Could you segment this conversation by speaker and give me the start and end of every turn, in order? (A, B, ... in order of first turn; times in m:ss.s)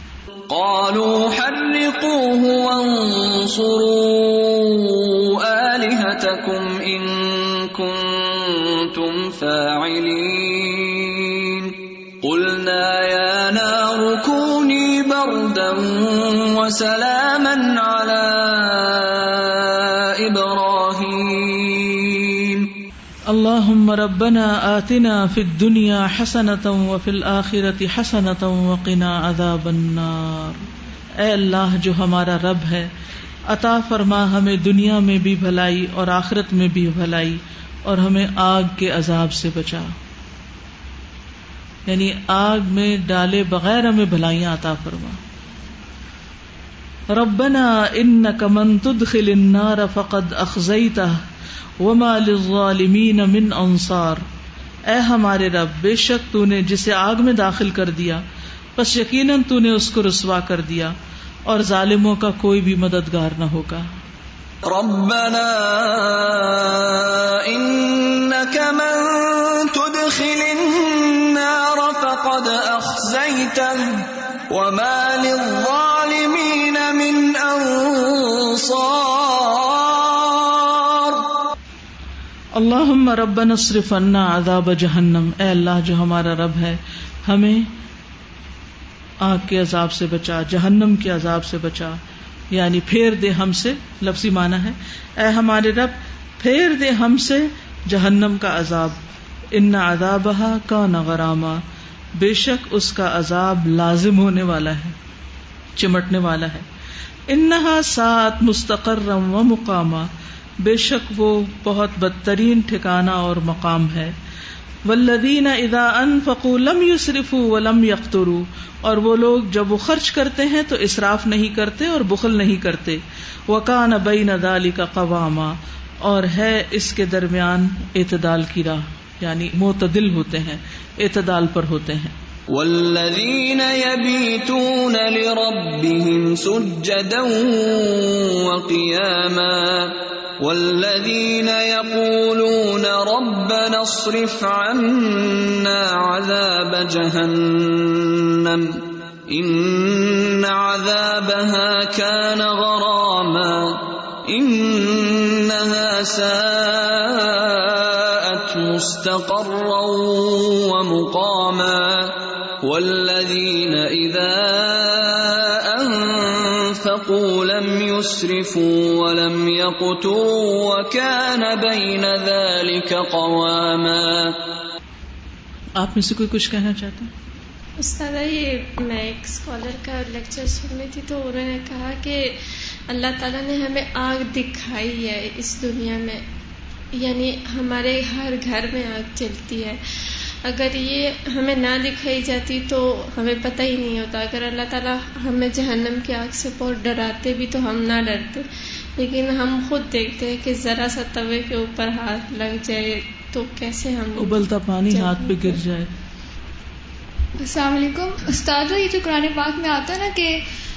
0:00.5-0:22.7 A
0:23.3-0:30.6 B
0:31.2-0:32.9 B
0:33.5-0:39.9 B
0:41.9-0:45.2 B
0:47.1-0:51.2 B
0:51.8-0:54.2 B
0:54.9-0:58.2 B
0:58.8-1:00.9 B
1:01.5-1:03.8 B
1:04.6-1:21.3 A
1:22.5-1:27.7 B
1:29.2-1:32.0 B
1:32.5-1:39.0 B
1:39.5-1:41.6 B
1:42.2-1:45.0 B
1:45.8-1:46.6 B
1:47.3-1:50.1 B
1:50.6-1:54.2 B
1:54.8-2:12.1 B
2:12.5-2:54.6 A
2:55.8-2:57.1 B
2:57.8-3:06.2 C
3:06.9-3:18.5 C
3:19.0-3:25.6 C
3:24.2-3:25.9 B
3:27.4-3:30.4 D